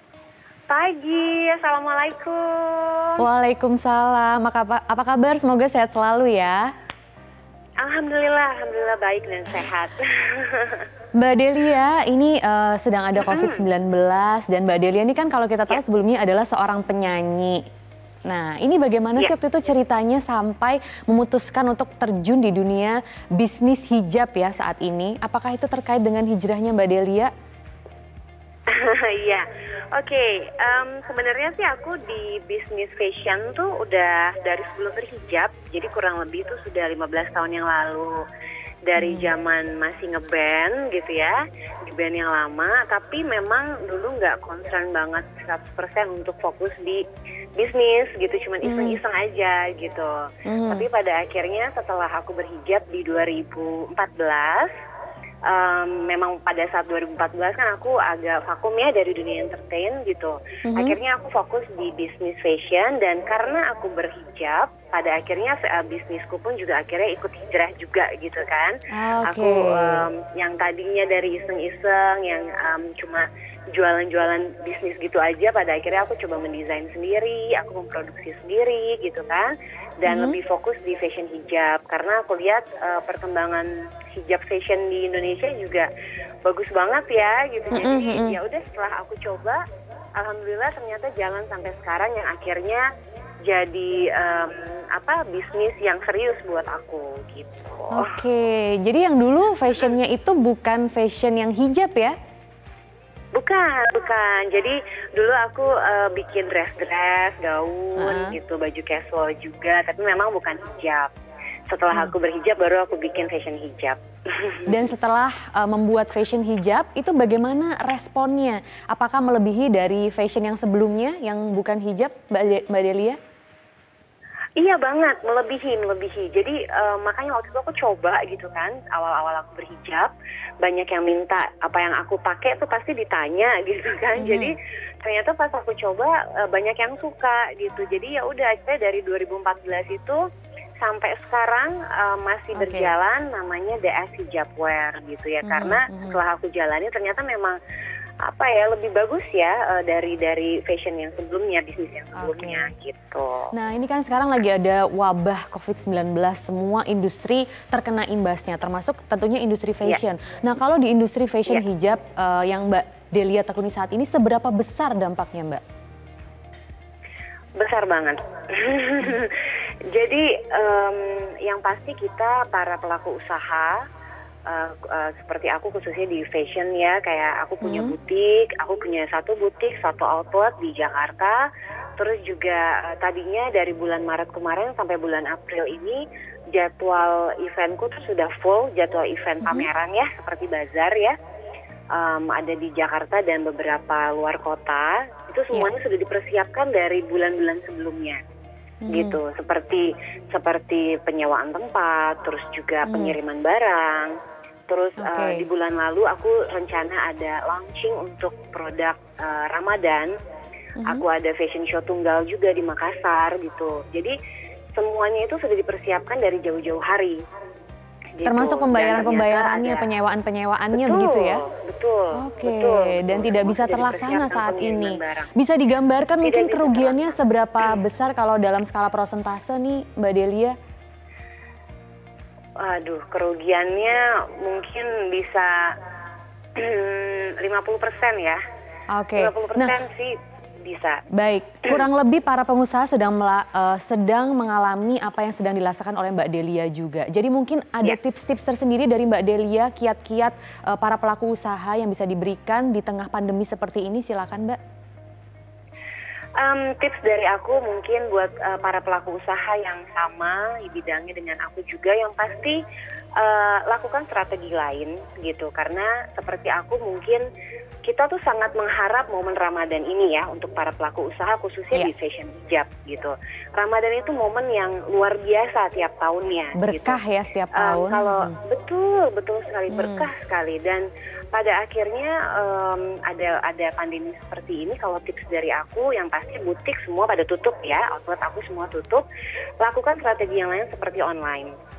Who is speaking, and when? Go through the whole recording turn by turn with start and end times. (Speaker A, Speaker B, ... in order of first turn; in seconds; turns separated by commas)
Speaker A: 0.7-3.2, Speaker B: 3.2-6.7, Speaker A: 7.8-10.8, Speaker B: 11.2-17.6, Speaker A: 13.2-13.7, Speaker B: 18.3-27.3, Speaker A: 28.7-38.2, Speaker A: 38.9-47.0, Speaker B: 39.0-39.3, Speaker A: 47.6-54.7, Speaker B: 48.6-49.0, Speaker B: 50.5-50.8, Speaker A: 55.5-85.9, Speaker B: 60.7-61.0, Speaker B: 68.9-70.0, Speaker B: 80.0-80.4, Speaker A: 86.4-89.6, Speaker B: 87.7-88.4, Speaker A: 90.2-92.8, Speaker A: 93.5-98.2, Speaker B: 97.9-102.1, Speaker A: 103.3-111.1, Speaker B: 108.0-108.3, Speaker A: 111.7-114.8, Speaker B: 114.7-123.2, Speaker A: 124.6-140.2, Speaker B: 134.2-134.5, Speaker A: 140.8-147.6, Speaker B: 142.5-142.9, Speaker B: 145.4-146.2, Speaker A: 148.2-153.5, Speaker B: 152.2-152.7, Speaker B: 153.5-165.6, Speaker A: 167.6-173.8, Speaker A: 174.5-186.0, Speaker B: 177.6-177.9, Speaker A: 186.5-191.1, Speaker B: 189.4-189.7, Speaker A: 191.9-198.2, Speaker B: 198.8-199.2, Speaker A: 198.9-204.1, Speaker B: 202.9-203.2, Speaker A: 204.7-210.1, Speaker B: 205.0-205.4, Speaker A: 210.8-214.1, Speaker A: 214.8-217.2, Speaker A: 218.2-219.9, Speaker B: 218.2-221.4, Speaker A: 220.7-225.3, Speaker B: 222.1-230.6, Speaker A: 226.2-227.1, Speaker A: 232.6-235.7, Speaker A: 236.6-238.4, Speaker B: 238.9-239.7, Speaker A: 239.2-241.0, Speaker B: 241.1-254.6, Speaker A: 256.4-262.6, Speaker A: 263.2-267.2, Speaker A: 267.8-277.0, Speaker B: 276.5-278.4, Speaker A: 277.5-289.0, Speaker B: 279.7-280.1, Speaker A: 289.6-291.5